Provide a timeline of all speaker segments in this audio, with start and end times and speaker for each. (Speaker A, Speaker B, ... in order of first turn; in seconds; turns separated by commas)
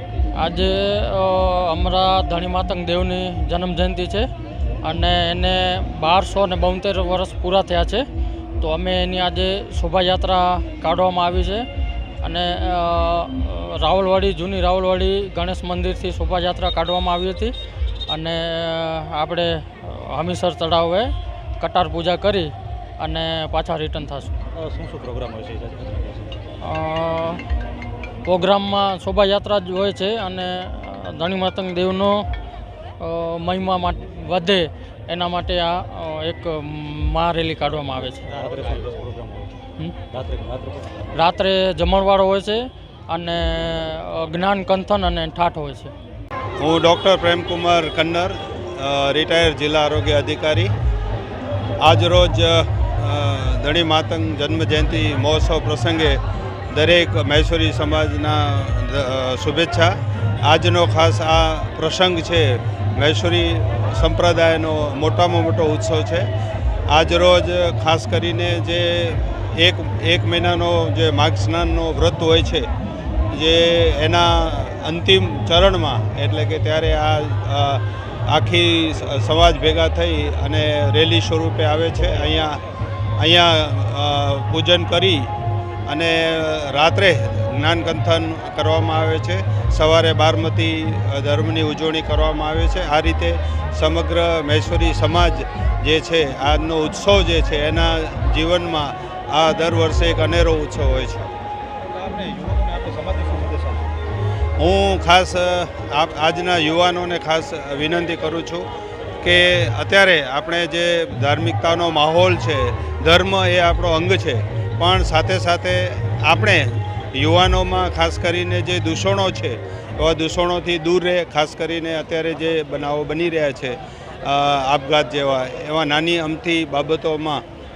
Speaker A: 0.4-4.3, Speaker A: 4.8-8.1, Speaker A: 8.6-11.6, Speaker A: 12.2-17.5, Speaker A: 18.1-24.4, Speaker B: 24.5-26.5, Speaker A: 26.7-27.4, Speaker A: 28.2-32.3, Speaker A: 33.0-38.2, Speaker B: 38.2-39.5, Speaker B: 40.1-41.3, Speaker A: 41.2-45.9, Speaker C: 46.6-50.7, Speaker C: 51.8-66.3, Speaker C: 66.9-72.7, Speaker C: 73.3-82.6, Speaker C: 83.2-85.3, Speaker C: 85.9-101.3, Speaker B: 101.8-103.9, Speaker C: 104.6-108.7, Speaker C: 109.2-127.4